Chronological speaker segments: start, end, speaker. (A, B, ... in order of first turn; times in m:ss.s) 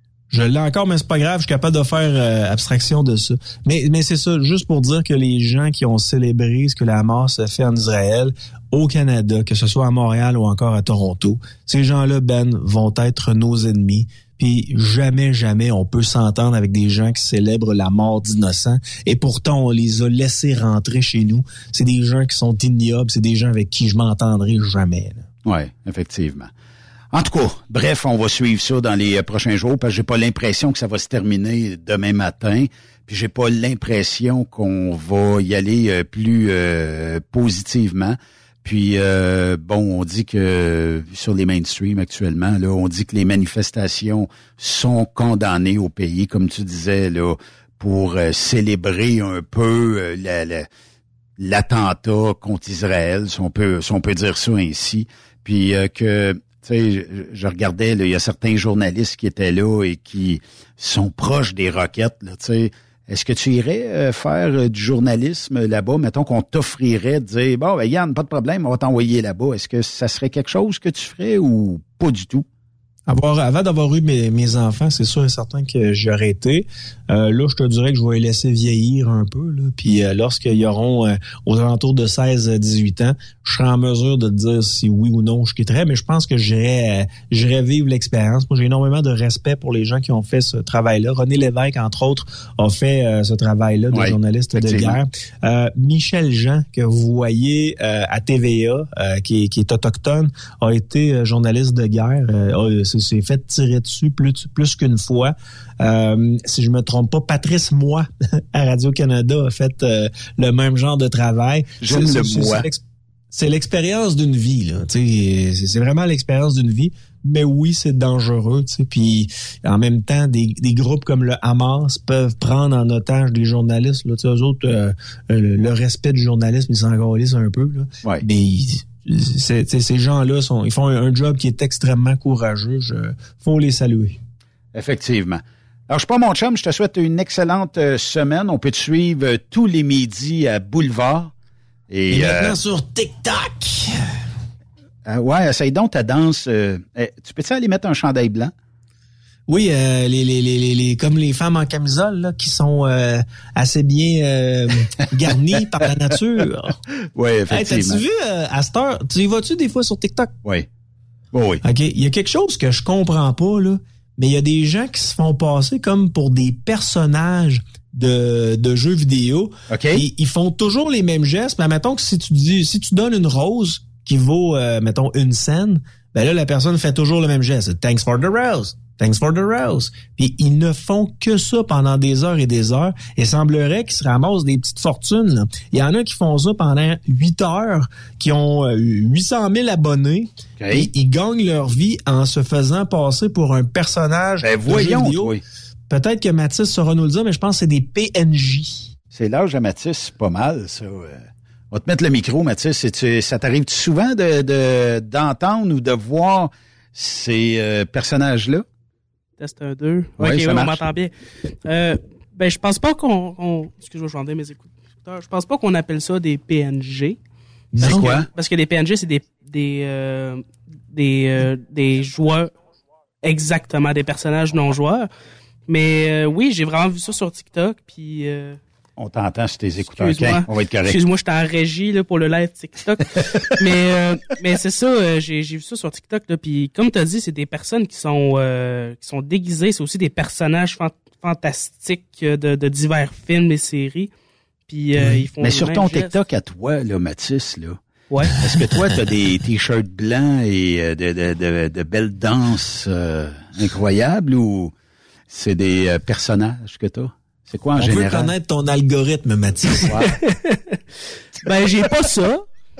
0:00.3-0:25.2 A
0:25.4-0:26.5 B
0:27.1-0:50.7 B
0:51.4-1:12.4 B
1:13.1-2:14.2 A
1:33.9-1:34.9 B
1:51.8-1:52.7 B
2:14.7-2:21.3 B
2:21.9-2:22.5 B
2:22.1-2:24.0 A
2:25.0-2:28.5 B
2:29.5-2:36.8 A
2:37.1-2:38.0 B
2:37.5-2:40.3 A
2:41.3-2:41.6 B
2:41.6-3:15.3 A
2:49.7-2:50.0 B
3:10.6-3:10.9 B
3:14.4-3:15.4 B
3:15.9-3:18.9 A
3:19.1-3:21.2 B
3:21.7-3:28.6 B
3:29.4-3:31.1 C
3:30.2-3:30.8 B
3:31.6-3:37.2 C
3:37.7-3:38.1 A
3:37.8-3:38.3 B
3:37.8-3:42.5 C
3:43.2-3:45.1 C
3:45.7-3:48.6 C
3:49.0-3:51.0 B
3:49.9-4:04.1 C
4:04.7-4:06.2 C
4:05.4-4:07.8 B
4:08.1-4:08.4 C
4:08.4-4:14.7 B
4:15.3-4:18.3 B
4:17.8-4:19.9 A
4:19.8-4:20.1 B
4:20.1-4:20.8 C
4:21.4-4:22.4 C